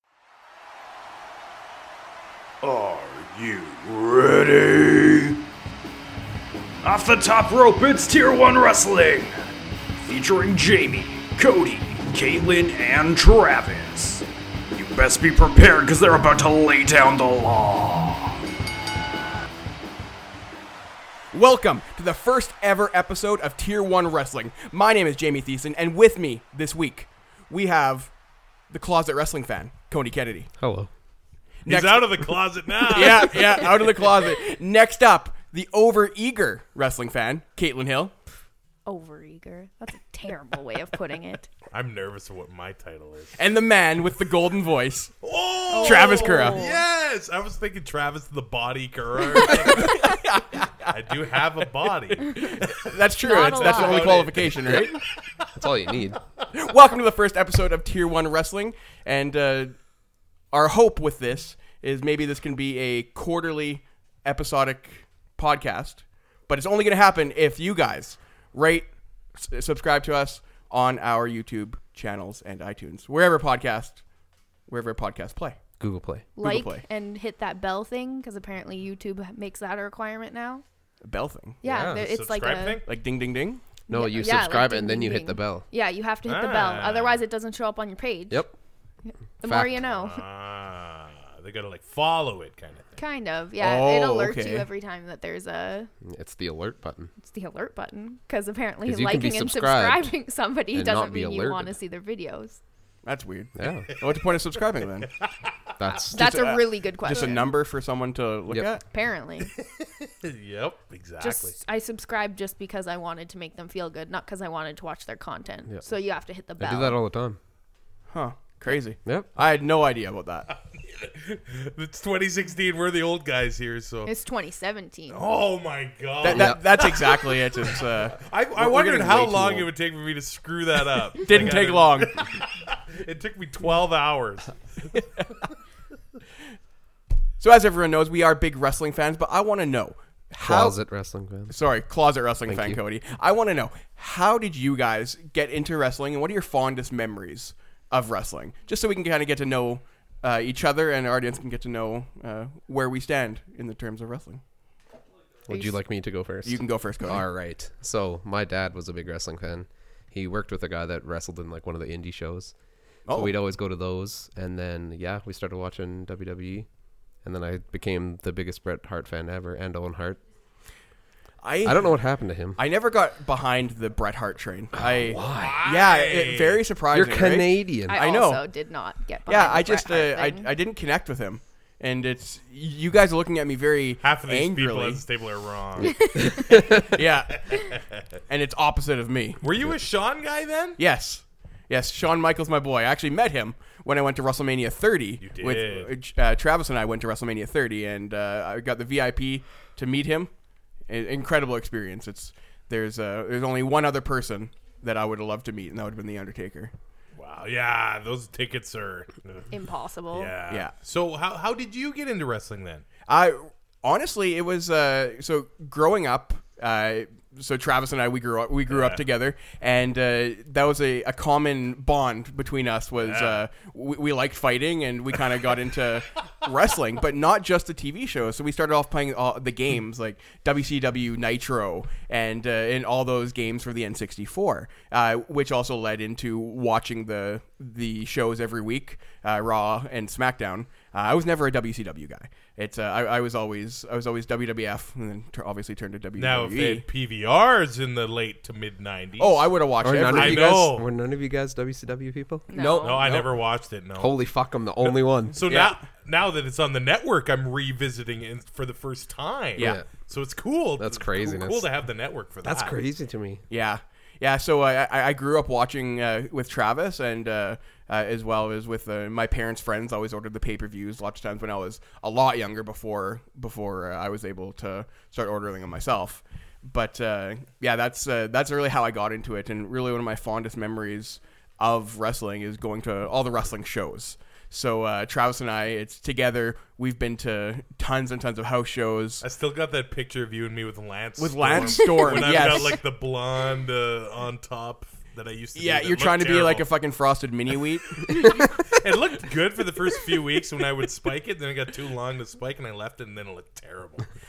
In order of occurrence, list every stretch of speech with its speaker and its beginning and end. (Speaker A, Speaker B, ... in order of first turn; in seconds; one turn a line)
Speaker A: 2.6-5.4
Speaker A: 6.8-18.4
Speaker B: 21.3-28.1
Speaker B: 28.7-30.5
Speaker C: 30.6-30.9
Speaker B: 31.6-38.1
Speaker D: 31.7-34.1
Speaker E: 38.9-41.5
Speaker D: 41.7-43.4
Speaker B: 43.4-45.2
Speaker D: 45.2-50.2
Speaker E: 45.7-46.8
Speaker B: 45.8-46.6
Speaker B: 49.5-51.0
Speaker D: 50.9-55.5
Speaker B: 52.3-55.0
Speaker E: 53.2-54.3
Speaker C: 55.5-56.2
Speaker B: 56.5-59.8
Speaker B: 60.5-74.0
Speaker B: 74.7-75.6
Speaker C: 75.8-76.3
Speaker E: 76.4-80.6
Speaker B: 76.4-76.8
Speaker B: 81.0-81.6
Speaker E: 81.6-82.8
Speaker C: 81.6-82.0
Speaker D: 81.9-82.9
Speaker B: 82.9-83.6
Speaker E: 83.9-88.5
Speaker C: 83.9-85.7
Speaker D: 86.3-87.2
Speaker E: 89.0-90.2
Speaker C: 89.4-89.7
Speaker D: 89.8-93.0
Speaker E: 93.0-95.9
Speaker B: 93.6-94.7
Speaker C: 96.0-97.1
Speaker E: 97.2-102.6
Speaker C: 98.8-100.1
Speaker C: 100.7-101.8
Speaker B: 103.0-105.1
Speaker C: 103.6-103.9
Speaker C: 105.8-106.5
Speaker E: 106.1-107.5
Speaker B: 106.1-108.8
Speaker E: 108.9-109.5
Speaker D: 109.6-111.6
Speaker E: 111.2-117.0
Speaker C: 116.6-117.4
Speaker B: 118.1-120.5
Speaker D: 120.8-124.1
Speaker E: 124.0-125.2
Speaker D: 125.1-135.0
Speaker B: 126.2-129.7
Speaker C: 126.2-126.6
Speaker B: 131.2-132.4
Speaker B: 137.4-140.8
Speaker C: 140.4-141.6
Speaker B: 141.5-154.4
Speaker C: 142.5-142.8
Speaker C: 155.5-162.5
Speaker B: 156.4-157.4
Speaker B: 163.1-163.3
Speaker C: 163.1-166.7
Speaker C: 167.2-170.2
Speaker B: 171.4-172.0
Speaker C: 171.6-172.6
Speaker B: 172.6-178.4
Speaker C: 174.8-175.7
Speaker D: 175.2-176.6
Speaker C: 176.9-178.0
Speaker E: 177.9-180.5
Speaker B: 179.3-185.0
Speaker D: 184.0-187.8
Speaker E: 185.9-186.3
Speaker B: 186.3-187.7
Speaker B: 188.3-189.4
Speaker D: 189.4-190.8
Speaker B: 190.8-200.3
Speaker D: 195.2-195.9
Speaker B: 200.9-206.7
Speaker D: 207.2-209.5
Speaker E: 209.5-210.3
Speaker D: 210.1-212.9
Speaker B: 213.1-246.8
Speaker D: 218.7-219.0
Speaker D: 223.0-223.4
Speaker D: 246.2-250.9
Speaker B: 249.2-250.7
Speaker C: 249.8-253.3
Speaker E: 252.5-253.0
Speaker B: 252.6-253.2
Speaker D: 252.6-254.2
Speaker C: 254.0-255.5
Speaker D: 254.8-262.8
Speaker B: 255.5-255.8
Speaker B: 259.6-259.8
Speaker C: 259.6-259.9
Speaker C: 260.8-261.7
Speaker C: 262.4-263.4
Speaker B: 263.5-289.2
Speaker D: 289.2-296.7
Speaker B: 291.2-292.8
Speaker E: 292.0-292.3
Speaker B: 295.6-298.9
Speaker D: 298.0-304.1